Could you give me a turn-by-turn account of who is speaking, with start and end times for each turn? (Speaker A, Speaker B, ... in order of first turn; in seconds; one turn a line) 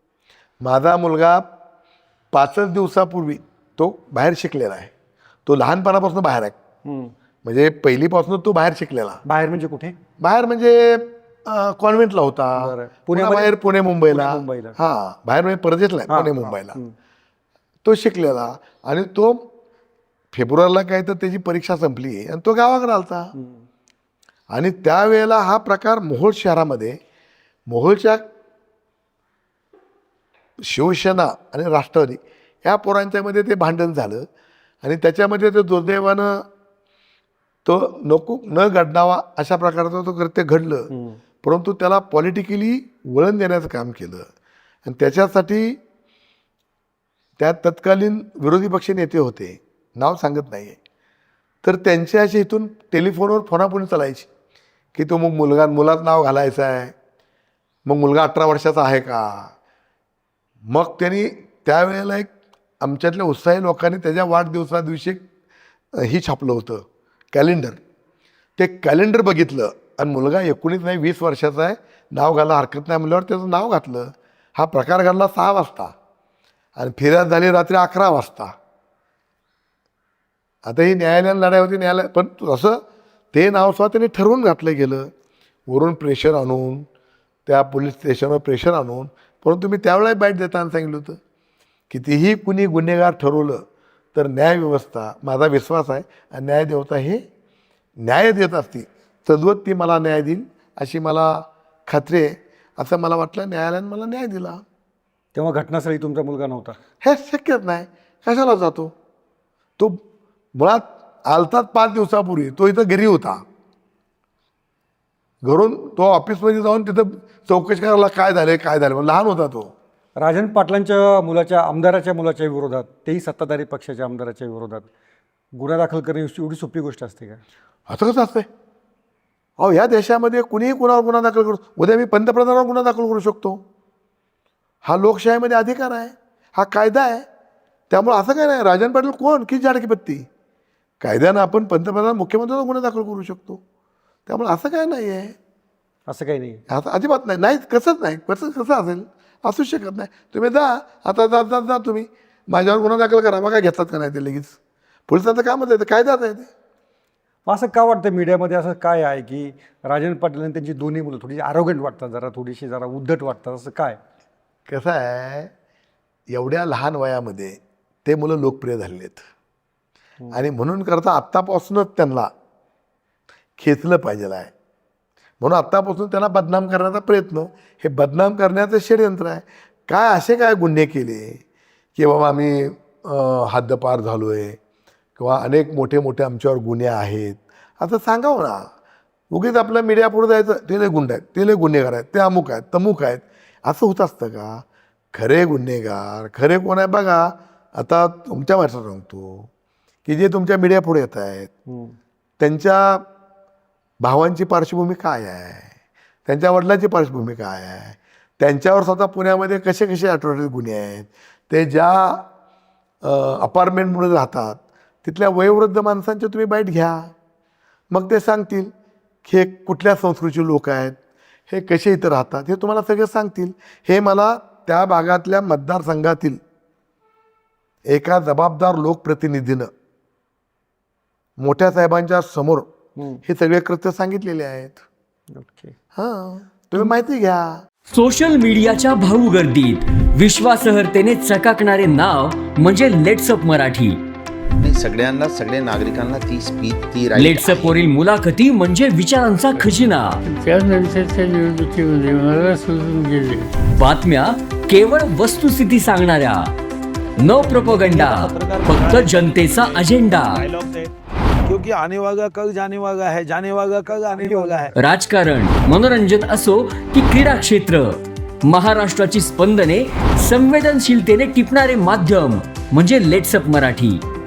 Speaker A: 0.6-1.5
Speaker A: 2.3-4.9
Speaker A: 5.5-6.5
Speaker B: 6.8-7.1
Speaker A: 7.4-9.2
Speaker B: 9.2-10.0
Speaker A: 10.2-16.8
Speaker B: 12.6-14.8
Speaker B: 16.1-16.9
Speaker A: 17.8-19.4
Speaker A: 20.3-23.3
Speaker A: 24.5-27.0
Speaker A: 27.7-28.2
Speaker A: 30.6-34.3
Speaker A: 34.8-36.5
Speaker A: 37.6-40.9
Speaker A: 41.4-44.2
Speaker A: 44.8-45.8
Speaker A: 47.4-50.8
Speaker A: 51.6-54.3
Speaker A: 54.9-56.9
Speaker A: 57.9-59.5
Speaker A: 60.7-65.2
Speaker A: 66.0-67.8
Speaker A: 68.6-75.9
Speaker A: 76.8-78.5
Speaker A: 80.6-82.8
Speaker A: 83.3-85.1
Speaker A: 85.7-86.8
Speaker A: 87.5-91.2
Speaker A: 91.9-97.2
Speaker A: 98.0-104.6
Speaker B: 105.3-106.8
Speaker A: 107.0-108.9
Speaker A: 110.5-113.4
Speaker A: 115.4-119.7
Speaker B: 120.2-124.9
Speaker B: 125.5-127.4
Speaker A: 127.9-128.5
Speaker A: 129.6-133.6
Speaker A: 134.8-137.2
Speaker A: 137.9-140.2
Speaker A: 141.0-143.6
Speaker A: 144.3-145.3
Speaker B: 146.1-146.6
Speaker A: 146.7-156.5
Speaker B: 157.4-164.0
Speaker A: 164.7-165.5
Speaker A: 166.3-169.2
Speaker A: 170.3-172.3
Speaker A: 173.6-174.5
Speaker A: 175.4-181.4
Speaker A: 181.9-184.6
Speaker A: 185.2-188.7
Speaker A: 189.3-199.5
Speaker A: 200.0-201.5
Speaker A: 202.4-203.0
Speaker A: 204.0-205.7
Speaker A: 206.2-212.3
Speaker A: 213.0-217.1
Speaker A: 217.9-218.7
Speaker A: 219.2-221.0
Speaker A: 221.5-226.4
Speaker A: 227.9-229.7
Speaker A: 231.4-232.7
Speaker A: 233.2-234.8
Speaker B: 235.3-235.7
Speaker A: 235.9-237.6
Speaker C: 237.9-244.0
Speaker D: 244.6-247.8
Speaker C: 247.2-250.2
Speaker E: 250.2-253.5
Speaker C: 253.7-256.5
Speaker C: 257.2-260.4
Speaker F: 257.3-260.9
Speaker F: 261.4-264.7
Speaker B: 264.1-264.7
Speaker C: 264.7-274.0